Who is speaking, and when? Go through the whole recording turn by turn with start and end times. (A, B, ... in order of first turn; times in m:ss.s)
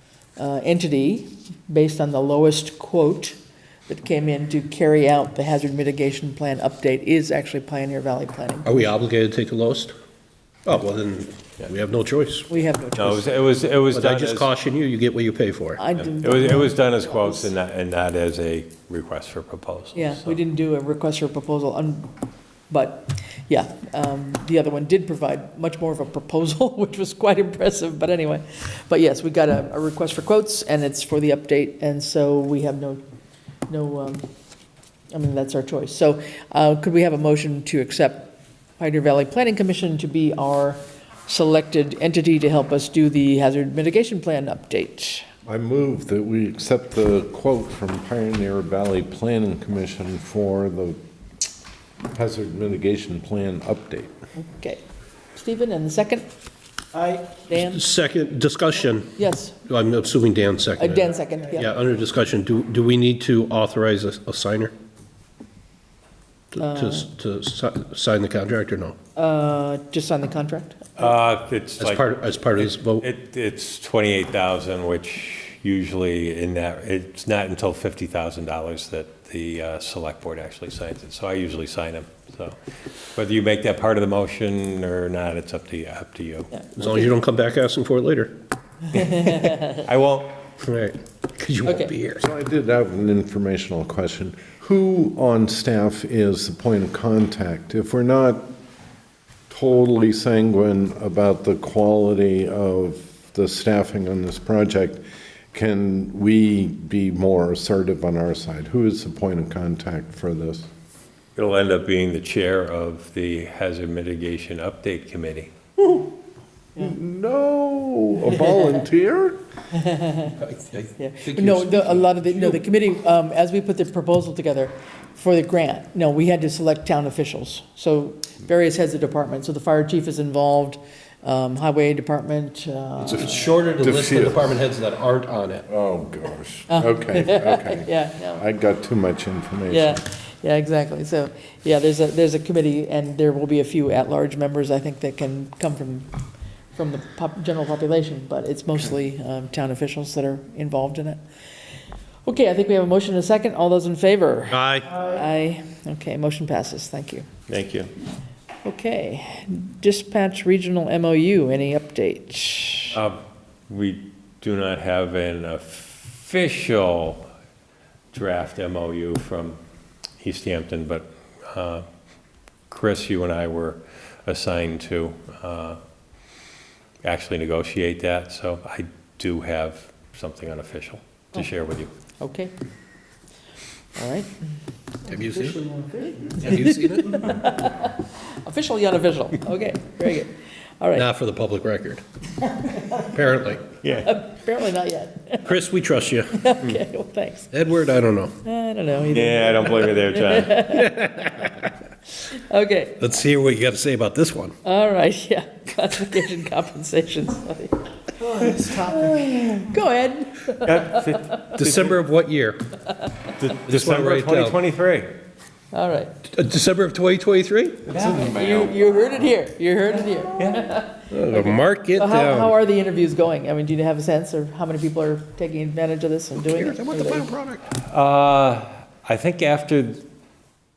0:00.4-0:08.9 A
0:08.6-0:09.9 B
0:10.6-0:12.5 B
0:12.5-0:13.3 A
0:13.0-0:14.5 C
0:13.9-0:15.8 B
0:15.8-0:17.5 A
0:16.0-0:20.4 C
0:19.9-0:22.2 A
0:22.7-0:33.0 A
0:33.7-0:34.2 A
0:35.1-0:45.3 A
0:45.4-0:51.0 D
0:52.1-0:54.1 D
0:54.4-0:54.8 A
0:55.3-0:56.3 A
0:57.1-0:57.8 A
0:57.5-0:59.1 B
0:59.2-0:59.6 A
0:59.6-1:04.7 B
1:00.8-1:01.7 A
1:06.5-1:09.0 B
1:06.6-1:07.1 A
1:09.2-1:11.1 A
1:11.0-1:12.0 C
1:11.8-1:13.1 B
1:12.5-1:22.6 C
1:23.1-1:26.7 C
1:26.7-1:28.4 B
1:28.9-1:29.6 A
1:28.9-1:30.5 C
1:30.6-1:32.2 B
1:32.1-1:38.5 D
1:39.5-1:50.7 D
1:51.4-1:55.5 C
1:56.8-1:59.4 D
1:59.7-2:00.4 A
2:00.4-2:02.6 B
2:01.0-2:13.5 A
2:13.0-2:15.6 B
2:13.8-2:14.6 D
2:15.7-2:20.0 D
2:16.7-2:18.4 A
2:19.7-2:26.2 A
2:26.7-2:31.2 A
2:32.2-2:37.2 A
2:34.5-2:34.9 B
2:37.5-2:37.9 C
2:38.6-2:43.0 A
2:42.9-2:47.2 C
2:48.1-2:49.6 C
2:50.2-2:51.8 C
2:52.7-2:55.8 C
2:57.0-3:01.9 C
3:02.2-3:02.5 A
3:04.0-3:04.3 A
3:05.1-3:05.7 B
3:05.9-3:11.1 A
3:06.4-3:07.2 B
3:10.9-3:12.0 B
3:12.5-3:13.1 A
3:13.0-3:13.8 B
3:13.8-3:14.2 C
3:14.0-3:15.5 A
3:15.4-3:16.5 B
3:16.3-3:17.5 A
3:17.5-3:18.3 B
3:18.4-3:21.5 A
3:19.1-3:20.7 C
3:20.6-3:21.7 B
3:22.2-3:23.0 A
3:23.0-3:24.6 B
3:24.6-3:31.4 A
3:30.6-3:32.0 C
3:31.5-3:32.7 B
3:33.4-3:35.2 C
3:33.6-3:34.6 B
3:35.7-3:36.2 A
3:36.3-3:37.9 B
3:37.9-3:38.3 C
3:37.9-3:38.7 D
3:38.2-3:47.3 A
3:40.3-3:40.7 C
3:41.1-3:42.6 B
3:46.5-3:47.7 B
3:47.7-3:50.0 C